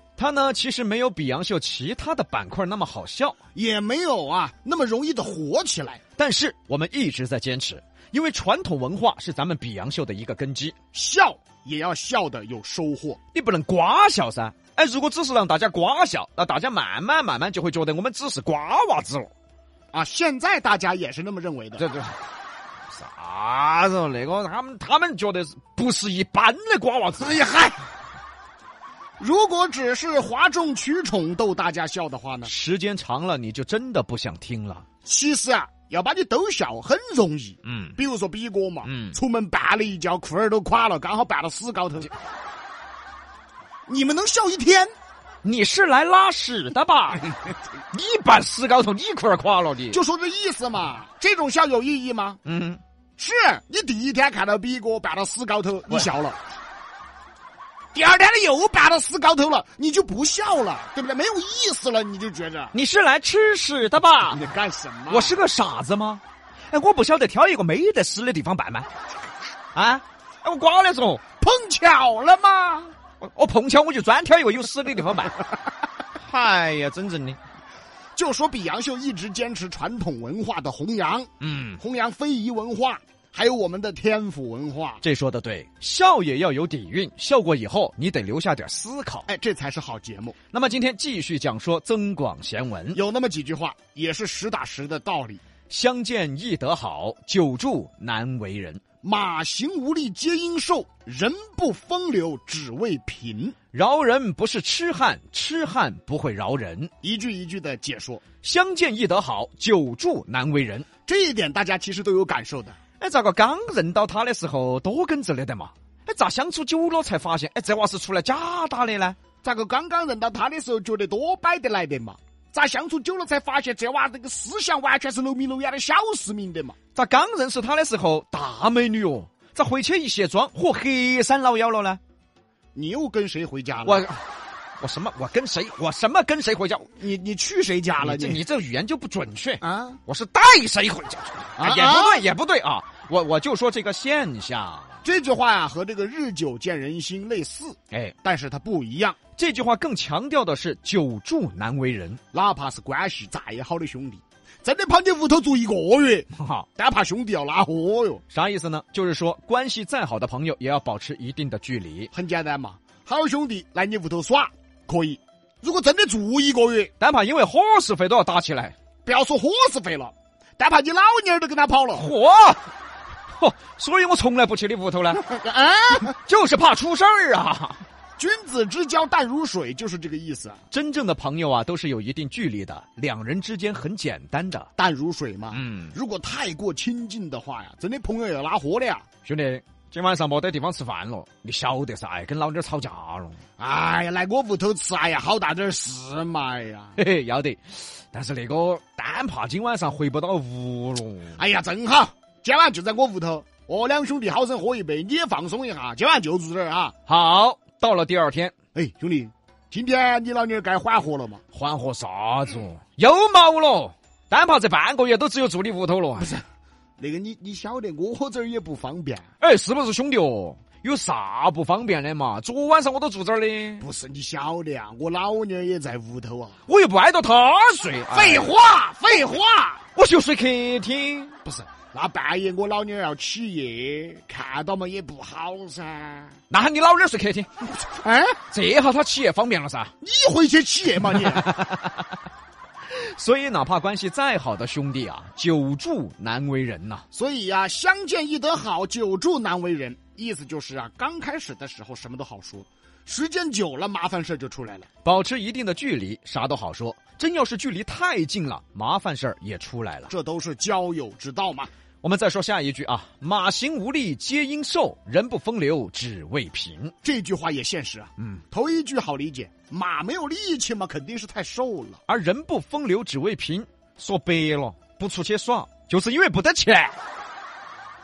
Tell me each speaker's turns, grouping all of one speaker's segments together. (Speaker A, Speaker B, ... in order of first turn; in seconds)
Speaker A: 0.2-3.4, 6.2-10.7, 13.3-19.3, 21.8-22.2, 22.9-27.5, 32.5-34.9, 37.6-38.0, 38.9-39.2, 45.4-47.4, 47.9-50.0, 52.5-52.8, 62.7-64.4, 65.1-68.9, 69.8-71.2, 73.2-75.4, 76.2-77.4, 81.4-81.8, 85.0-89.3, 90.5-93.0, 95.7-98.8, 103.7-106.9, 108.4-110.9, 113.0-119.2, 127.0-132.0, 133.8-134.3, 134.8-136.9, 138.0-145.0, 149.4-152.2, 156.3-156.7, 158.3-162.1, 167.0-168.8, 171.9-172.7, 173.3-175.3, 176.1-177.8, 180.7-184.7, 185.5-185.9, 189.2-193.4, 197.0-201.4, 207.1-208.5, 211.5-216.4, 219.4-223.9, 226.7-228.5, 229.9-231.4, 236.5-237.6, 238.5-239.9, 241.2-242.2, 242.9-247.1, 255.0-260.1, 262.0-266.9, 272.1-277.0
Speaker B: 3.5-6.0, 10.9-13.2, 19.9-21.8, 27.2-27.8, 29.2-32.5, 35.0-42.1, 43.9-44.9, 49.9-52.4, 53.2-56.4, 57.9-62.7, 64.3-65.4, 71.4-73.0, 78.2-85.0, 89.3-90.3, 92.9-95.4, 99.0-103.6, 107.0-108.2, 111.1-112.8, 119.4-126.8, 132.8-134.0, 137.0-138.4, 139.6-140.0, 141.6-142.2, 145.0-149.2, 152.3-156.3, 156.8-158.2, 162.1-166.9, 169.1-172.1, 175.2-176.1, 178.2-180.6, 184.8-189.1, 193.6-197.0, 201.4-206.9, 208.8-211.4, 216.2-216.4, 217.0-219.2, 223.8-226.6, 228.1-229.8, 231.5-236.4, 237.9-238.4, 240.0-241.7, 247.1-254.9, 260.1-261.7, 267.0-272.0